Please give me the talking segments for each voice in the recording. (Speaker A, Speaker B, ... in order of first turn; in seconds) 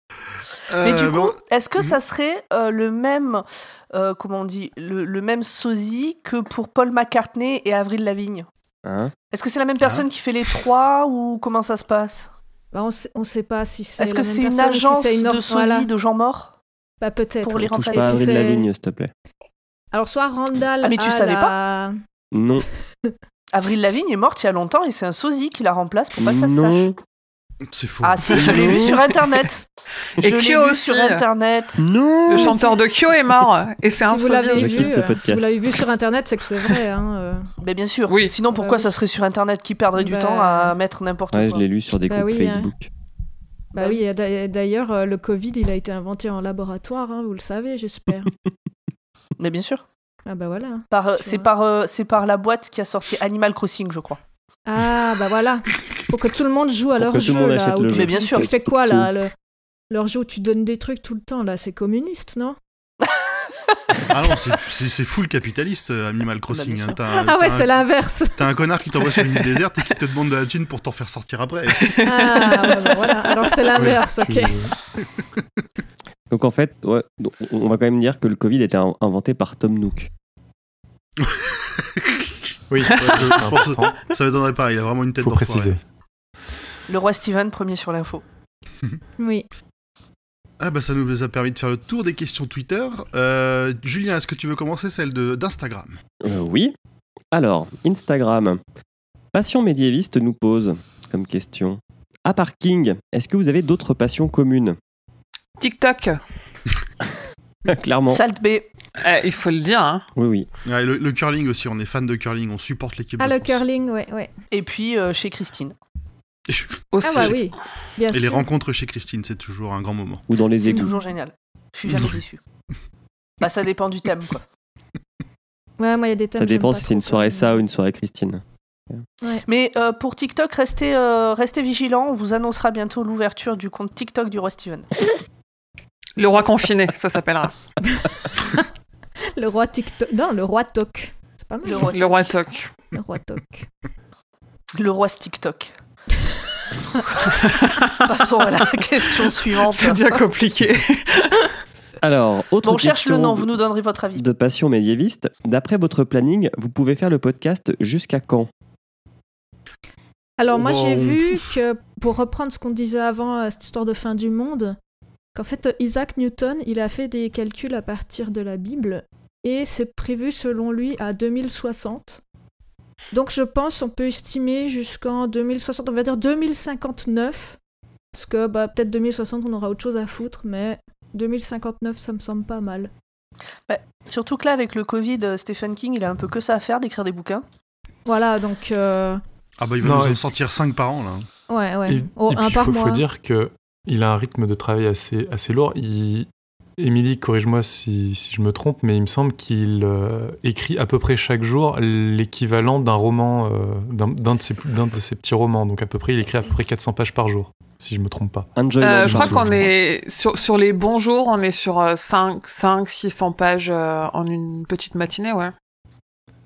Speaker A: 0.7-1.9, 9.8-10.1, 27.7-29.1, 64.1-67.7, 68.3-72.0, 81.2-82.3, 83.0-85.8, 90.6-96.0, 110.6-113.6, 116.5-117.3, 118.1-120.2, 160.5-161.5, 189.6-191.2
Speaker B: 0.8-8.5, 9.3-12.3, 14.0-16.6, 17.4-18.4, 20.8-21.5, 23.5-26.9, 28.0-29.6, 30.2-31.8, 37.6-41.6, 43.8-44.0, 49.4-49.8, 50.9-54.2, 57.9-58.5, 66.5-67.0, 86.9-88.2, 108.1-108.7, 114.5-115.7, 120.6-122.4, 123.4-124.4, 129.4-135.1, 141.6-142.2, 144.7-145.7, 147.9-150.1, 152.6-154.2, 183.7-187.4
Speaker C: 8.8-9.1, 17.6-19.1, 22.3-22.6, 26.2-27.0, 31.8-32.5, 34.5-35.5, 41.3-42.9, 57.0-59.1, 76.3-80.1, 96.2-96.7, 97.3-98.6, 99.3-104.8, 107.7-108.2, 110.2-110.5, 120.3-120.9, 126.4-129.0, 152.0-153.5, 154.2-158.5, 208.6-209.7
Speaker D: 12.7-15.9, 17.0-18.7, 19.9-21.9, 32.3-32.8, 34.0-37.5, 38.5-38.9, 40.0-40.7, 42.1-42.7, 43.7-48.3, 50.2-51.5, 54.6-59.3, 59.9-62.6, 67.1-68.5, 72.0-74.6, 89.2-89.5, 113.2-114.3, 117.0-118.5, 120.7-121.0, 125.8-127.6, 137.9-138.6, 139.3-141.9, 142.9-143.7, 160.4-164.8, 165.3-172.2, 173.1-177.6, 178.1-182.9, 188.1-189.2, 191.5-193.0
Speaker E: 30.2-31.2, 32.3-34.9, 38.1-38.4, 71.8-73.2, 105.6-106.2, 109.0-110.0, 116.9-117.4, 136.2-137.5, 141.9-142.7, 147.4-147.9, 149.5-151.5, 208.8-215.5
Speaker F: 73.7-74.7, 82.7-84.0, 85.2-85.8, 189.8-190.2, 191.9-209.7